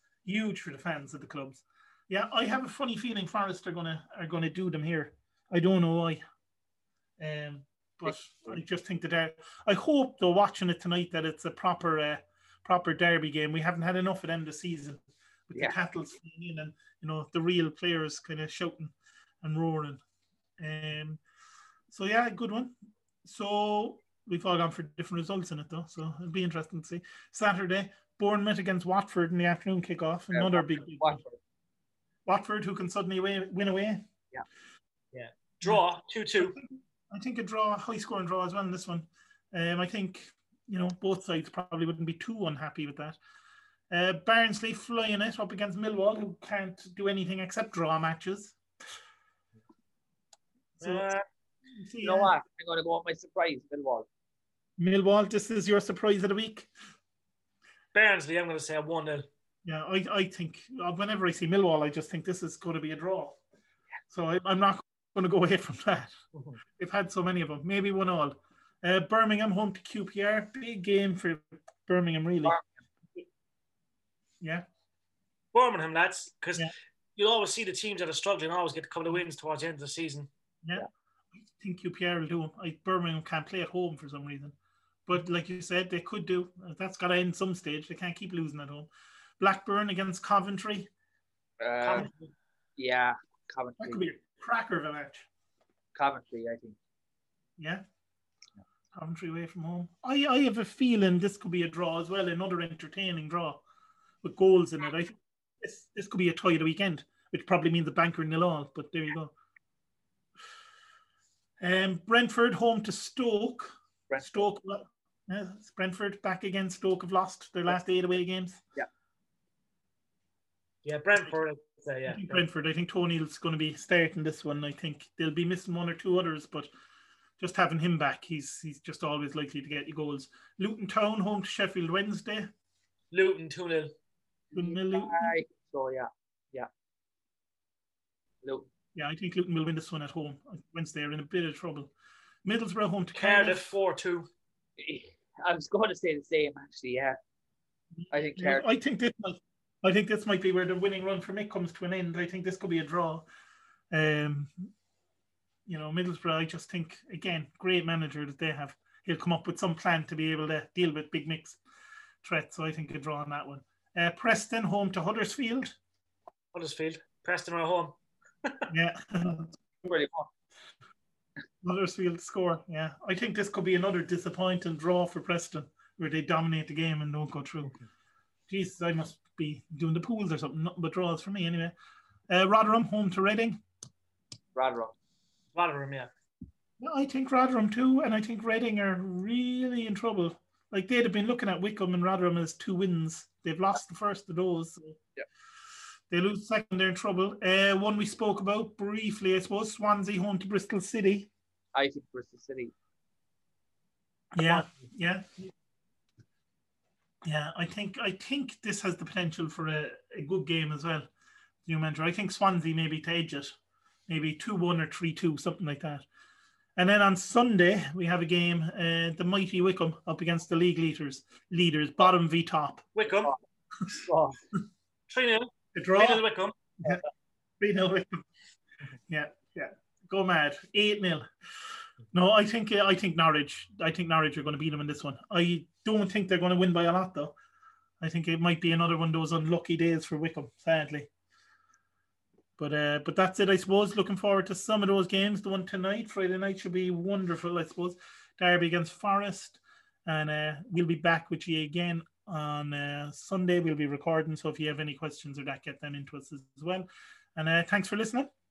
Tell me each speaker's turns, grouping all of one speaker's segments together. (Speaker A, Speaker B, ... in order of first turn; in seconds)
Speaker A: 0.2-6.2, 7.2-20.0, 20.6-21.2, 21.9-22.7, 23.2-31.2, 32.3-34.0, 36.4-43.2, 43.9-48.6, 50.8-51.1, 51.8-52.3, 54.8-56.7, 59.6-63.4, 64.1-66.2, 66.8-72.6, 81.6-84.5, 85.1-88.9, 89.4-90.9, 93.8-95.3, 97.6-97.8, 98.9-103.6, 104.2-109.3, 111.6-118.6, 122.1-126.7, 127.4-132.5, 134.5-135.4, 138.9-141.9, 142.4-143.7, 147.9-153.3, 153.9-154.7, 155.7-161.6, 162.2-165.8, 168.7-169.6, 171.6-177.7, 178.5-181.7, 182.3-183.6, 186.8-195.0, 196.1-201.3, 204.3-205.5, 207.2-211.1, 211.7-213.6, 214.1-216.1, 216.8-222.9, 225.7-226.2, 227.6-228.2, 229.1-231.3, 232.1-237.3, 238.0-241.1, 242.6-258.3
Speaker B: 8.1-8.6, 30.3-31.4, 52.0-54.1, 91.6-92.1, 92.8-94.1, 96.0-96.8, 114.1-114.4, 134.5-136.7, 138.4-138.7, 144.8-147.2, 148.1-148.7, 169.8-170.3, 184.6-184.9, 201.7-202.7, 223.1-224.4
Speaker C: 35.1-36.6, 50.8-51.2, 57.9-59.3, 75.5-80.3, 91.8-92.3, 120.8-122.5, 133.1-133.9, 143.2-144.3, 166.5-168.7, 185.6-186.1, 222.9-223.3, 225.1-226.6